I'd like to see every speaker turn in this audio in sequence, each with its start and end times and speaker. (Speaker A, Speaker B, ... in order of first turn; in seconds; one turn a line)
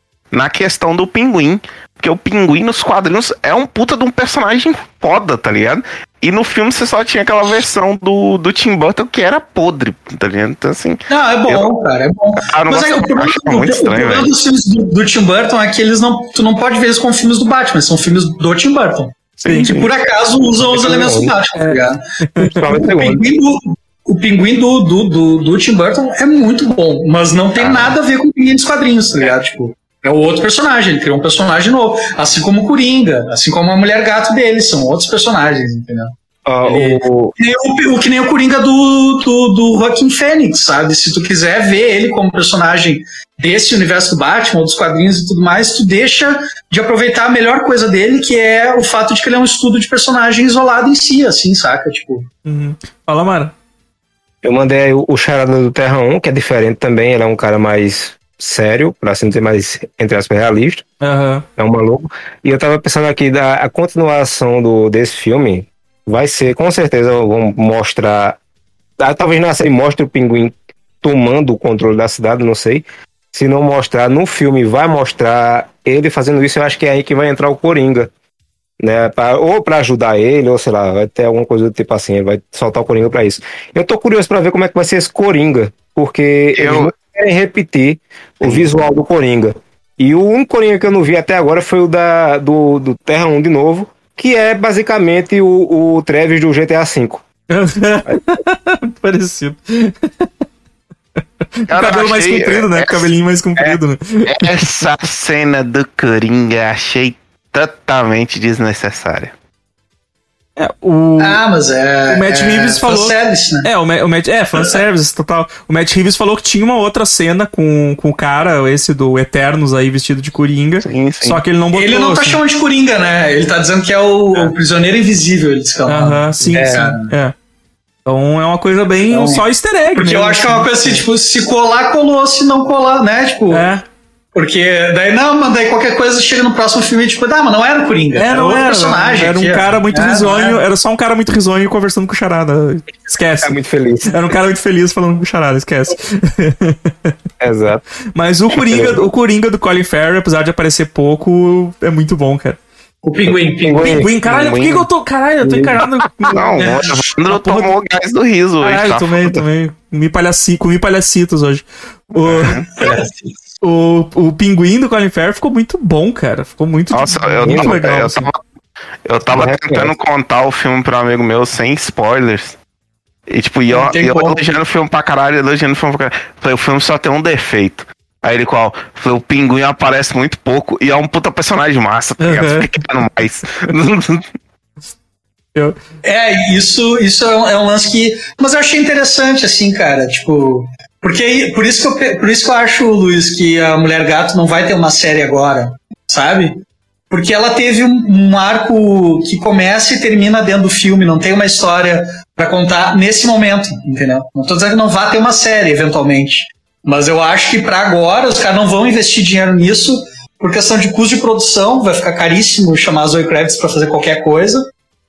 Speaker A: 0.3-11.7
Speaker B: 11.1-22.0
Speaker A: 12.3-14.3
Speaker A: 19.4-19.9
Speaker C: 19.5-19.7
Speaker D: 20.7-21.3
Speaker C: 21.6-22.8
Speaker D: 22.4-23.2
Speaker B: 22.9-36.1
Speaker A: 27.6-27.9
Speaker D: 36.5-37.3
Speaker B: 36.6-52.3
Speaker C: 52.4-53.5
Speaker D: 54.4-60.8
Speaker C: 61.0-61.5
Speaker D: 61.6-68.4
Speaker D: 69.0-78.1
Speaker D: 78.8-97.2
Speaker A: 86.5-86.9
Speaker C: 97.5-100.3
Speaker D: 98.1-98.4
Speaker C: 101.6-104.6
Speaker A: 101.7-103.1
Speaker A: 104.3-109.3
Speaker C: 110.6-111.4
Speaker B: 111.2-113.7
Speaker C: 112.1-122.4
Speaker A: 120.8-121.4
Speaker B: 121.7-127.1
Speaker C: 125.9-127.3
Speaker D: 126.5-126.8
Speaker C: 128.0-131.0
Speaker B: 129.1-133.7
Speaker C: 133.5-133.8
Speaker B: 134.3-140.6
Speaker C: 138.1-143.5
Speaker D: 143.4-144.3
Speaker C: 144.1-147.1
Speaker D: 147.4-147.8
Speaker C: 148.1-152.6
Speaker D: 148.5-149.1
Speaker B: 153.0-154.1
Speaker D: 153.2-154.3
Speaker C: 153.8-157.7
Speaker A: 154.2-154.9
Speaker D: 155.4-156.3
Speaker A: 156.3-159.4
Speaker C: 158.6-162.6
Speaker A: 162.2-162.7
Speaker B: 162.7-163.1
Speaker C: 163.6-168.2
Speaker A: 166.9-168.4
Speaker D: 167.4-168.2
Speaker A: 169.1-172.6
Speaker D: 169.3-169.9
Speaker A: 173.3-184.2
Speaker B: 173.7-174.4
Speaker C: 182.2-182.7
Speaker B: 186.0-214.7